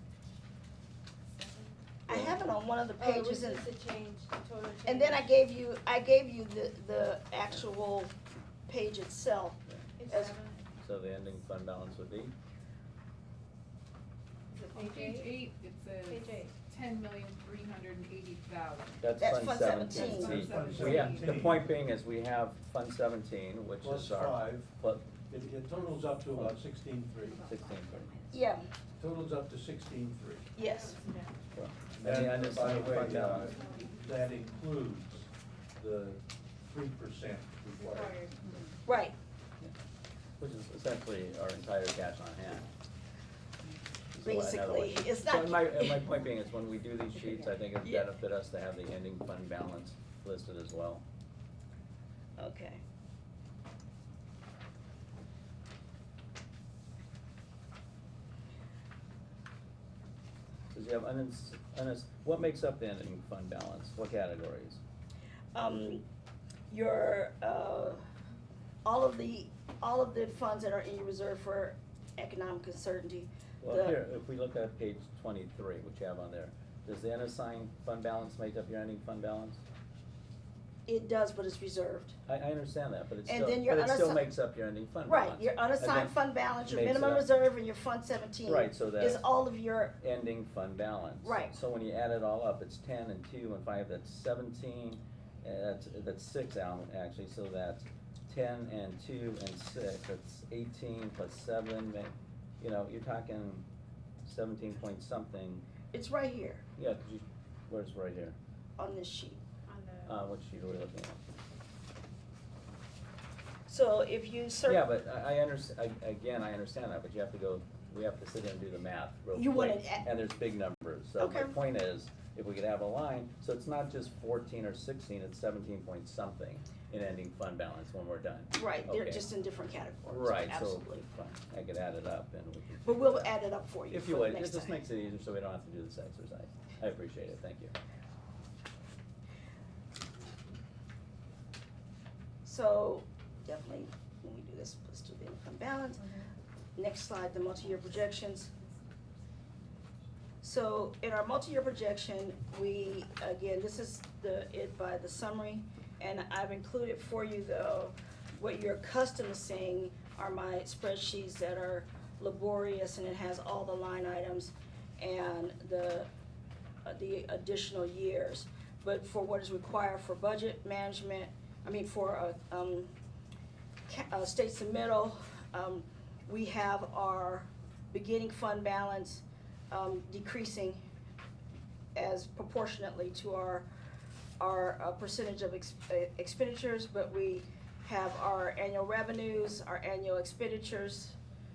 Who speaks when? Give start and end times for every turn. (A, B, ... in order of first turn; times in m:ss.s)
0:01.4-0:01.8 A
0:02.1-0:03.7 B
0:02.1-0:02.4 C
0:03.0-0:05.3 A
0:04.8-0:08.1 B
0:08.7-0:10.4 B
0:10.0-0:10.6 A
0:10.8-0:12.3 C
0:14.5-0:15.5 A
0:14.7-0:19.0 D
0:16.0-0:16.5 A
0:19.0-0:25.1 C
0:19.2-0:20.6 B
0:19.8-0:21.6 D
0:20.3-0:21.6 E
0:23.8-0:24.7 E
0:25.3-0:27.5 E
0:27.2-0:28.5 A
0:27.5-0:28.1 C
0:28.3-0:28.7 B
0:29.0-0:30.5 E
0:30.6-0:31.0 B
0:30.8-0:31.3 A
0:31.5-0:33.5 C
0:32.0-0:38.2 E
0:37.7-0:38.6 A
0:38.8-0:39.2 B
0:40.4-0:42.7 C
0:44.1-0:51.0 C
0:44.2-0:46.1 B
0:47.8-0:48.1 B
0:52.4-0:52.8 B
1:00.7-1:04.8 C
1:05.6-1:06.0 B
1:06.7-1:08.0 B
1:08.8-1:14.0 B
1:13.6-1:19.6 C
1:20.9-1:22.2 B
1:22.3-1:27.3 C
1:23.3-1:24.3 B
1:25.0-1:30.0 B
1:28.4-1:29.2 C
1:30.0-1:43.7 C
1:31.2-1:31.6 B
1:44.2-1:45.6 C
1:45.9-1:46.6 B
1:46.8-1:48.4 C
1:48.8-1:49.4 B
1:49.7-1:50.3 A
1:50.1-1:51.2 C
1:53.7-1:54.8 B
1:54.7-2:09.3 C
1:59.3-2:00.1 B
2:01.2-2:01.6 B
2:08.5-2:11.0 B
2:10.1-2:13.4 C
2:12.8-2:14.8 B
2:13.9-2:17.8 C
2:22.4-2:28.5 B
2:30.4-2:46.1 B
2:46.8-2:52.9 B
2:53.9-3:00.8 B
3:01.9-3:03.7 B
3:04.4-3:11.2 B